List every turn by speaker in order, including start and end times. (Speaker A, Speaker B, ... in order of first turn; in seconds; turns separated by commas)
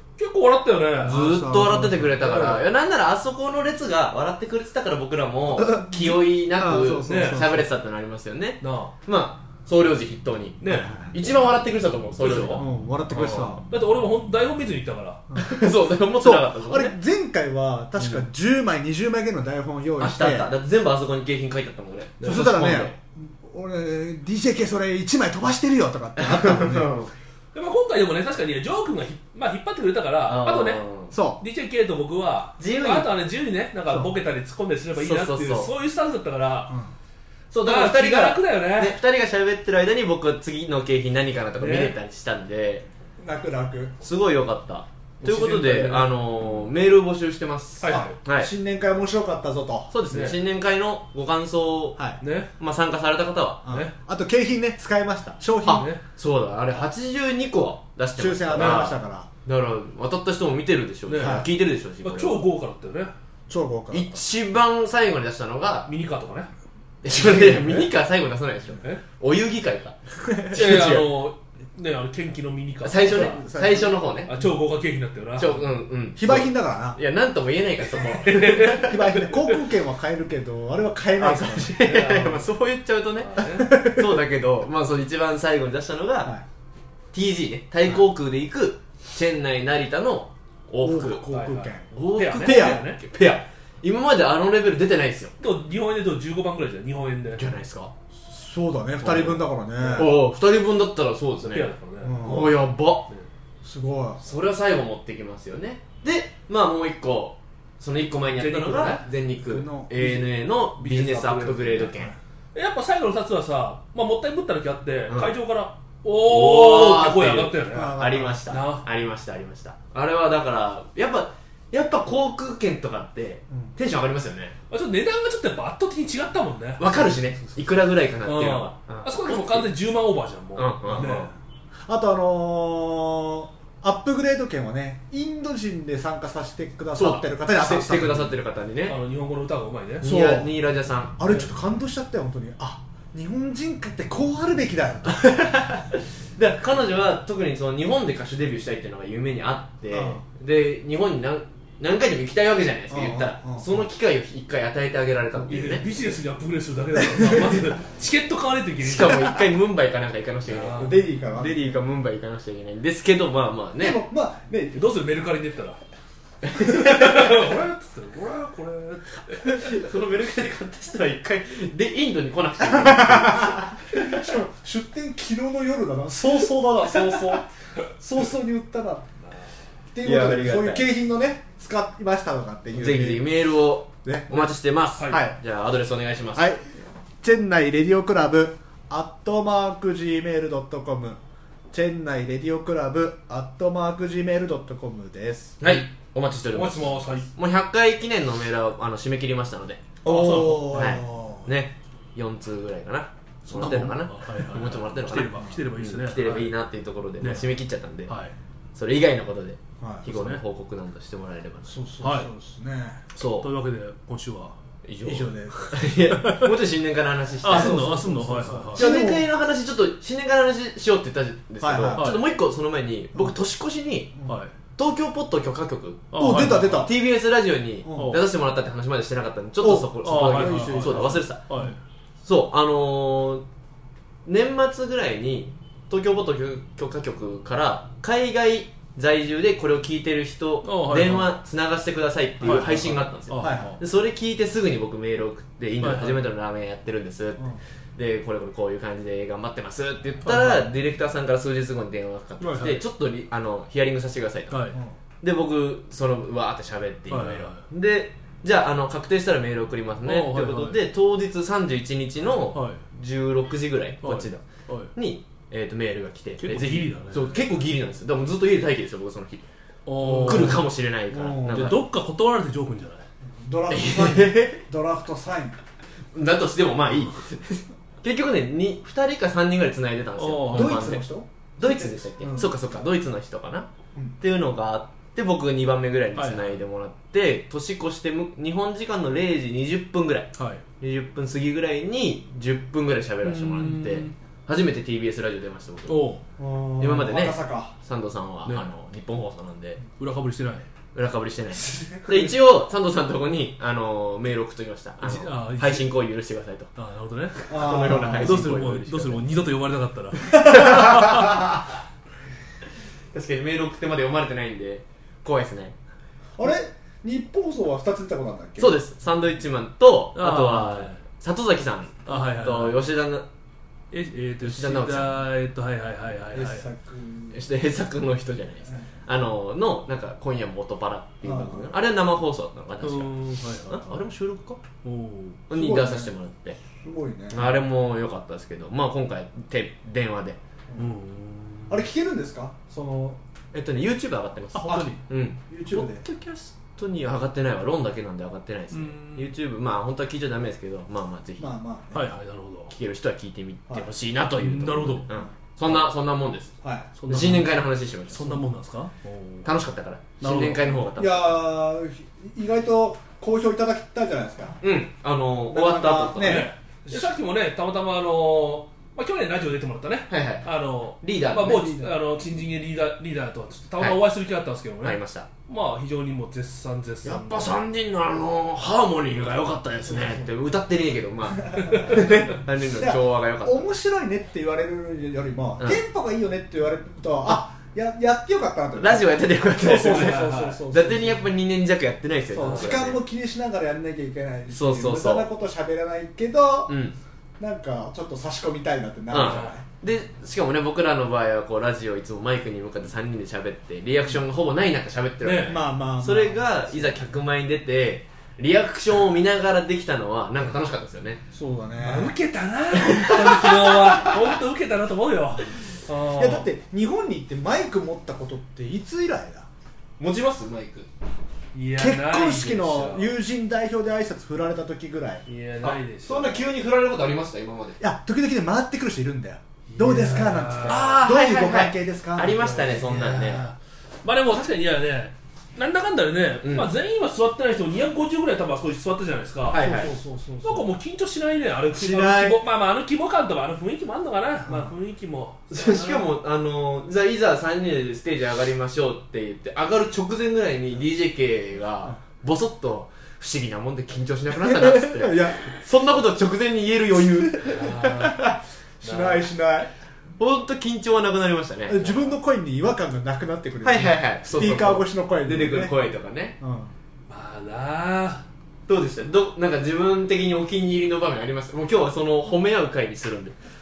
Speaker A: 0.2-1.2, Speaker B: 1.0-2.2, Speaker C: 1.0-13.6, Speaker A: 2.2-2.7, Speaker B: 5.5-7.7, Speaker A: 7.0-7.5, Speaker A: 8.6-8.9, Speaker A: 10.6-10.9, Speaker B: 10.7-11.1, Speaker A: 12.2-12.6, Speaker B: 12.6-13.6, Speaker A: 13.7-15.2, Speaker B: 15.3-15.7, Speaker C: 15.4-17.0, Speaker B: 16.2-20.5, Speaker C: 18.0-18.2, Speaker C: 20.0-23.0, Speaker A: 22.2-22.5, Speaker B: 22.2-26.9, Speaker C: 26.2-27.1, Speaker A: 27.5-30.8, Speaker C: 30.3-31.2, Speaker B: 31.1-31.4, Speaker A: 31.4-36.8, Speaker C: 32.6-33.1, Speaker B: 33.9-34.1, Speaker C: 35.0-35.7, Speaker B: 36.7-36.9, Speaker C: 37.5-42.9, Speaker A: 37.6-39.0, Speaker A: 41.6-42.0, Speaker B: 43.2-44.0, Speaker C: 44.0-48.5, Speaker A: 45.2-46.2, Speaker A: 47.8-48.2, Speaker B: 47.9-49.9, Speaker C: 49.9-52.0, Speaker A: 50.1-50.4, Speaker A: 52.2-52.5, Speaker C: 52.6-53.7, Speaker B: 53.6-55.9, Speaker A: 53.7-53.9, Speaker C: 55.6-62.4, Speaker A: 55.7-56.0, Speaker B: 58.2-59.3, Speaker A: 58.5-58.9, Speaker A: 61.1-61.5, Speaker B: 61.2-61.5, Speaker A: 62.0-63.1, Speaker B: 63.5-64.2, Speaker C: 63.9-65.9, Speaker A: 65.9-66.5, Speaker C: 67.0-71.1, Speaker B: 67.1-67.9, Speaker B: 70.2-70.7, Speaker A: 70.5-73.4, Speaker C: 72.8-74.3, Speaker B: 73.0-74.0, Speaker A: 74.3-75.7, Speaker C: 75.4-79.4, Speaker B: 76.2-77.0, Speaker A: 78.2-79.0, Speaker B: 78.6-81.8, Speaker C: 81.2-86.3, Speaker A: 81.8-82.5, Speaker A: 83.2-83.7, Speaker B: 83.4-84.2, Speaker C: 87.1-91.3, Speaker B: 90.8-92.8, Speaker A: 91.3-93.0, Speaker C: 91.9-95.3, Speaker A: 95.4-97.4, Speaker C: 97.3-97.9, Speaker B: 98.2-100.2, Speaker C: 99.0-103.1, Speaker A: 99.8-100.1, Speaker A: 101.4-102.2, Speaker B: 102.0-102.6, Speaker B: 103.6-104.2, Speaker C: 104.2-112.1, Speaker A: 108.3-109.0, Speaker B: 109.4-110.3, Speaker A: 110.8-111.9, Speaker A: 112.5-118.9, Speaker C: 115.1-115.3, Speaker C: 116.2-124.5, Speaker B: 117.7-118.5, Speaker A: 124.7-127.6, Speaker C: 126.8-129.7, Speaker A: 128.2-131.3, Speaker C: 130.6-131.3, Speaker B: 131.9-138.3, Speaker C: 136.9-139.0, Speaker A: 138.9-140.1, Speaker B: 140.0-140.5, Speaker C: 140.0-141.2, Speaker B: 141.2-145.7, Speaker C: 145.3-155.8, Speaker B: 149.9-150.2, Speaker B: 152.9-153.9, Speaker A: 155.5-159.3, Speaker B: 157.1-157.5, Speaker C: 158.8-164.0, Speaker A: 160.5-161.0, Speaker B: 160.8-161.8, Speaker B: 163.8-164.9, Speaker A: 164.8-165.8, Speaker A: 166.5-169.6, Speaker C: 166.6-167.2, Speaker C: 169.5-174.2, Speaker B: 172.7-177.5, Speaker B: 178.0-179.1, Speaker B: 179.9-183.4, Speaker C: 180.0-180.9, Speaker C: 182.7-186.5, Speaker B: 184.0-184.5, Speaker A: 185.0-185.2, Speaker B: 185.0-185.4, Speaker B: 186.3-186.6, Speaker B: 187.2-191.2, Speaker B: 191.7-195.6, Speaker C: 195.6-199.8, Speaker A: 196.5-197.3, Speaker B: 200.0-201.5, Speaker A: 200.1-201.0, Speaker C: 200.7-208.1, Speaker A: 203.5-206.5, Speaker A: 207.2-207.6, Speaker A: 208.1-208.3, Speaker C: 208.8-211.8, Speaker B: 209.8-210.1, Speaker A: 210.1-210.4, Speaker B: 211.7-213.0, Speaker A: 212.0-212.3, Speaker C: 213.2-213.5, Speaker A: 213.4-214.6, Speaker C: 214.8-218.1, Speaker B: 215.0-215.6, Speaker A: 215.6-216.5, Speaker A: 217.4-218.8, Speaker B: 217.4-219.3, Speaker C: 218.8-224.1, Speaker B: 221.6-222.2, Speaker A: 222.0-222.2, Speaker A: 224.3-224.6, Speaker C: 224.8-231.4, Speaker A: 226.1-226.9, Speaker B: 226.1-226.9, Speaker B: 227.8-228.2, Speaker A: 227.9-228.2, Speaker B: 229.6-231.8, Speaker A: 230.0-231.8, Speaker C: 232.2-233.4, Speaker C: 234.3-247.4, Speaker A: 240.6-241.3, Speaker B: 242.4-243.8, Speaker A: 242.4-243.8, Speaker A: 245.8-246.3, Speaker C: 248.0-254.7, Speaker A: 250.2-250.7, Speaker A: 252.4-252.8, Speaker A: 254.5-254.8, Speaker C: 255.2-269.4, Speaker A: 257.1-257.6, Speaker A: 260.0-260.8, Speaker A: 262.3-262.8, Speaker A: 264.0-264.9, Speaker A: 266.4-267.4, Speaker A: 269.9-270.6, Speaker C: 270.0-271.8, Speaker B: 270.0-270.5, Speaker B: 271.1-271.8, Speaker A: 271.5-273.1, Speaker B: 273.3-275.6, Speaker C: 273.7-274.7, Speaker C: 276.1-281.1, Speaker A: 280.2-281.0, Speaker B: 280.5-282.9, Speaker C: 281.6-296.0, Speaker A: 286.1-286.6, Speaker A: 290.4-290.6, Speaker A: 293.2-294.1, Speaker A: 295.9-296.2, Speaker B: 296.4-297.8, Speaker C: 296.8-299.8, Speaker A: 300.0-300.7, Speaker C: 300.9-306.7, Speaker B: 301.5-302.3, Speaker A: 305.0-305.9, Speaker A: 306.8-310.6, Speaker C: 307.4-309.2, Speaker B: 307.5-308.5, Speaker B: 310.3-311.4, Speaker C: 310.3-311.6, Speaker C: 313.1-315.7, Speaker B: 316.4-318.8, Speaker C: 318.6-323.3, Speaker A: 320.1-321.0, Speaker A: 322.1-322.8, Speaker A: 323.9-326.7, Speaker C: 324.4-325.2, Speaker B: 326.3-327.4, Speaker C: 327.3-334.6, Speaker B: 331.2-331.7, Speaker A: 332.8-334.0, Speaker A: 334.8-335.4, Speaker C: 335.5-336.6, Speaker B: 335.5-336.1, Speaker B: 336.8-337.5, Speaker C: 337.3-340.4, Speaker A: 340.8-341.8, Speaker B: 341.7-343.2, Speaker C: 343.5-351.5, Speaker A: 344.5-345.0, Speaker B: 344.6-346.1, Speaker A: 348.7-349.3, Speaker B: 351.4-352.1, Speaker A: 351.9-352.7, Speaker C: 352.7-356.6, Speaker A: 354.4-355.1, Speaker B: 355.1-355.8, Speaker B: 356.6-357.4, Speaker A: 357.0-357.6, Speaker C: 357.1-358.3, Speaker A: 358.1-359.5, Speaker C: 359.4-361.6, Speaker A: 360.2-360.7, Speaker B: 361.0-364.6, Speaker C: 364.6-366.5, Speaker B: 365.5-367.2, Speaker A: 366.2-377.6, Speaker C: 370.1-371.6, Speaker B: 371.4-372.0, Speaker C: 374.8-375.3, Speaker C: 377.0-383.7, Speaker B: 379.9-380.3, Speaker B: 381.4-391.3, Speaker A: 381.6-382.1, Speaker C: 388.7-393.0, Speaker A: 389.6-390.6, Speaker B: 392.3-396.8, Speaker A: 392.4-392.8, Speaker C: 394.5-395.3, Speaker C: 396.7-397.0, Speaker B: 397.4-399.6, Speaker C: 399.1-411.2, Speaker A: 399.1-399.6, Speaker A: 405.2-405.6, Speaker B: 405.5-407.1, Speaker B: 411.3-412.1, Speaker A: 411.8-416.5, Speaker C: 412.8-414.0, Speaker B: 416.1-419.5, Speaker C: 420.0-420.9, Speaker A: 421.5-423.1, Speaker B: 421.8-425.2, Speaker A: 425.2-426.4, Speaker C: 425.6-427.8, Speaker B: 427.8-433.4, Speaker A: 429.7-431.0, Speaker C: 430.6-433.5, Speaker A: 432.4-433.5, Speaker A: 434.0-439.6, Speaker C: 436.4-436.7, Speaker C: 439.5-439.9, Speaker B: 439.5-440.7, Speaker A: 440.4-446.1, Speaker B: 441.7-442.4, Speaker B: 444.5-444.7, Speaker C: 445.5-457.7, Speaker B: 454.4-455.6, Speaker B: 457.3-459.7, Speaker A: 457.4-458.2, Speaker A: 458.8-459.3, Speaker C: 460.2-462.2, Speaker B: 461.7-465.8, Speaker C: 463.6-466.4, Speaker B: 466.4-466.7, Speaker A: 467.1-468.3, Speaker C: 468.7-473.4